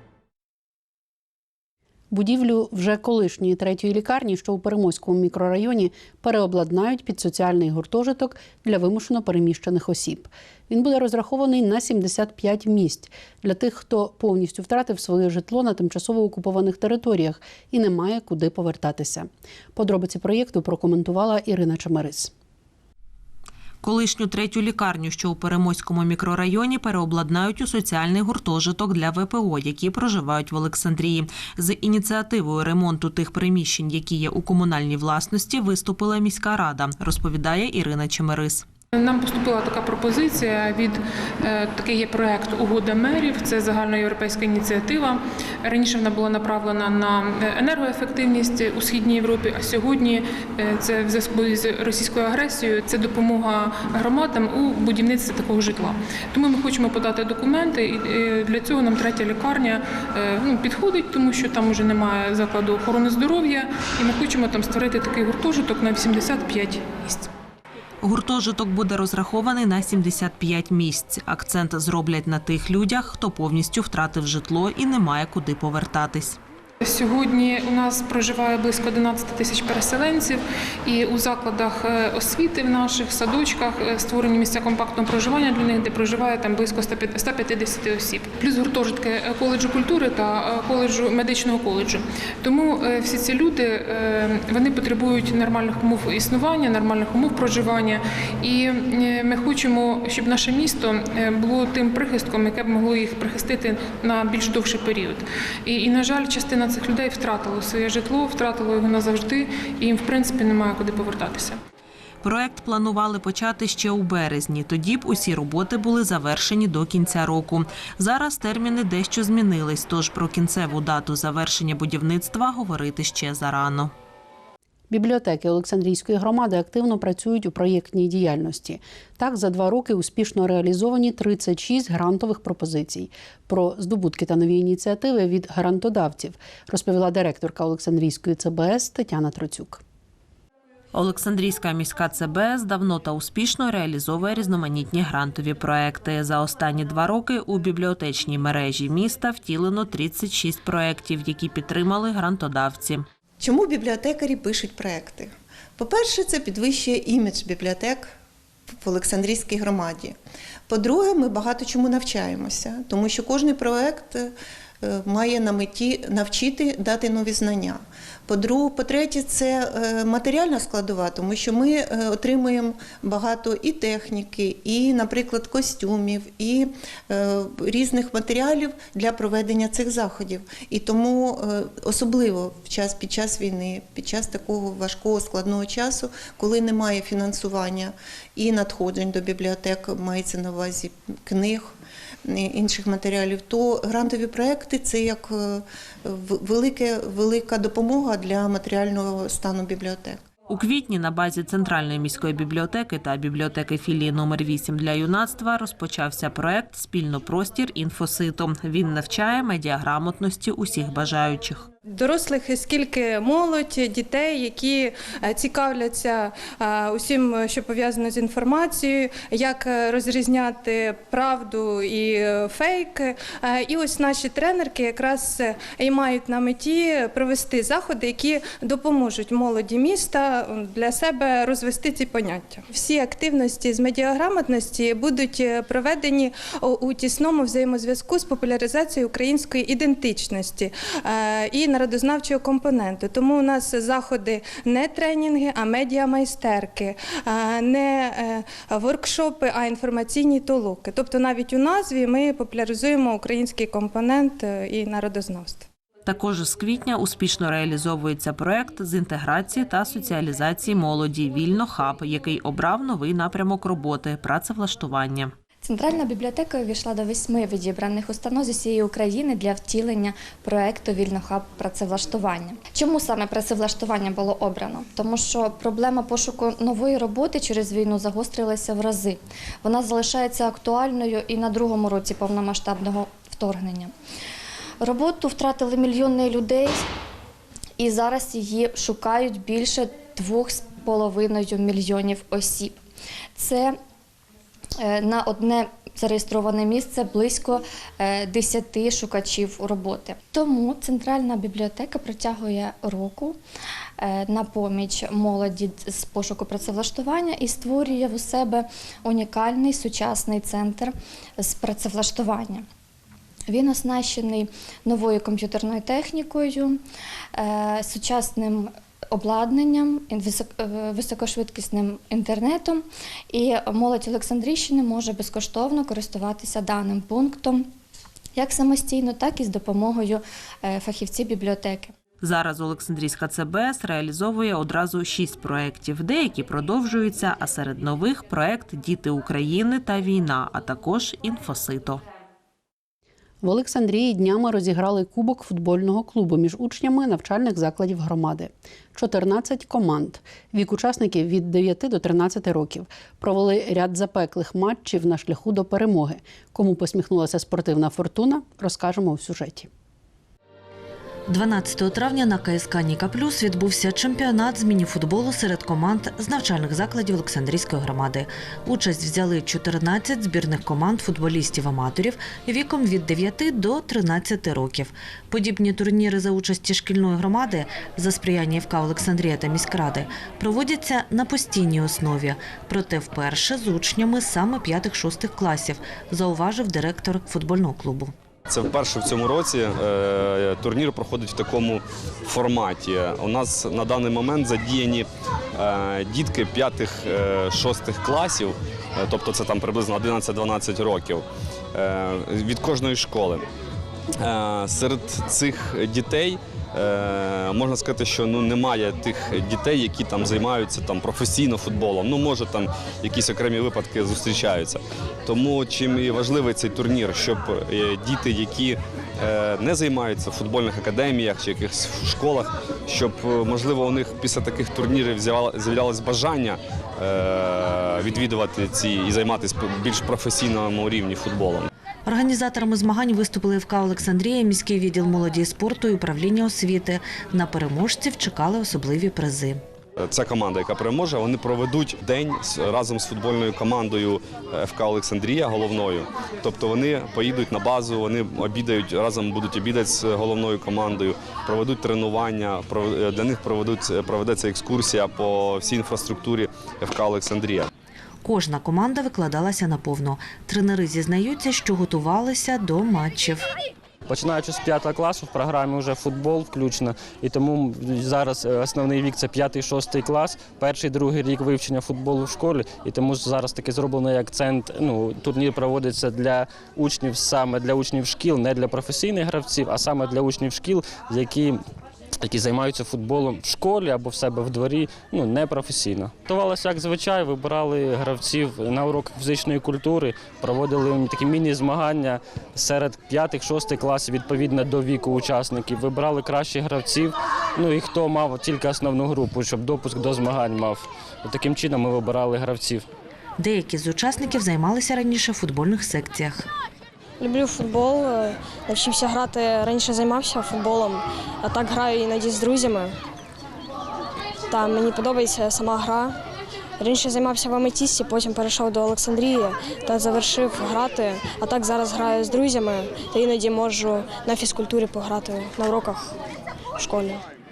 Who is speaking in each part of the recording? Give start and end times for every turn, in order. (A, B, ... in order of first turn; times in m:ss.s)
0:02.1-0:22.3 A
0:23.8-0:38.6 B
0:38.9-1:07.3 C
1:08.0-1:16.4 B
1:16.8-1:51.6 C
1:52.2-2:03.9 B
2:04.9-2:19.8 A
2:20.9-2:33.0 B
2:33.4-2:38.1 D
2:38.8-2:40.2 D
2:40.7-3:11.7 D
3:12.2-3:20.2 D
3:20.5-3:31.7 B
3:31.9-4:15.7 E
4:16.0-4:25.3 B
4:25.6-4:43.9 F
4:44.8-4:46.8 F
4:47.8-4:52.8 F
4:53.4-4:53.7 F
4:54.8-5:03.4 F
5:04.0-5:12.6 F
5:13.5-5:16.8 F
5:17.4-5:27.6 F
5:28.3-5:31.9 F
5:32.2-5:42.0 B
5:43.4-5:59.7 A
6:01.3-6:28.1 G
6:28.5-6:43.4 H
6:44.2-7:11.7 H
7:12.0-7:19.6 G
7:20.0-7:37.7 H
7:38.2-7:43.5 G
7:44.1-8:01.6 I
8:02.2-8:22.8 I
8:23.4-8:26.5 G
8:27.2-8:32.9 J
8:34.5-8:36.2 J
8:36.8-8:46.1 J
8:46.8-8:47.2 J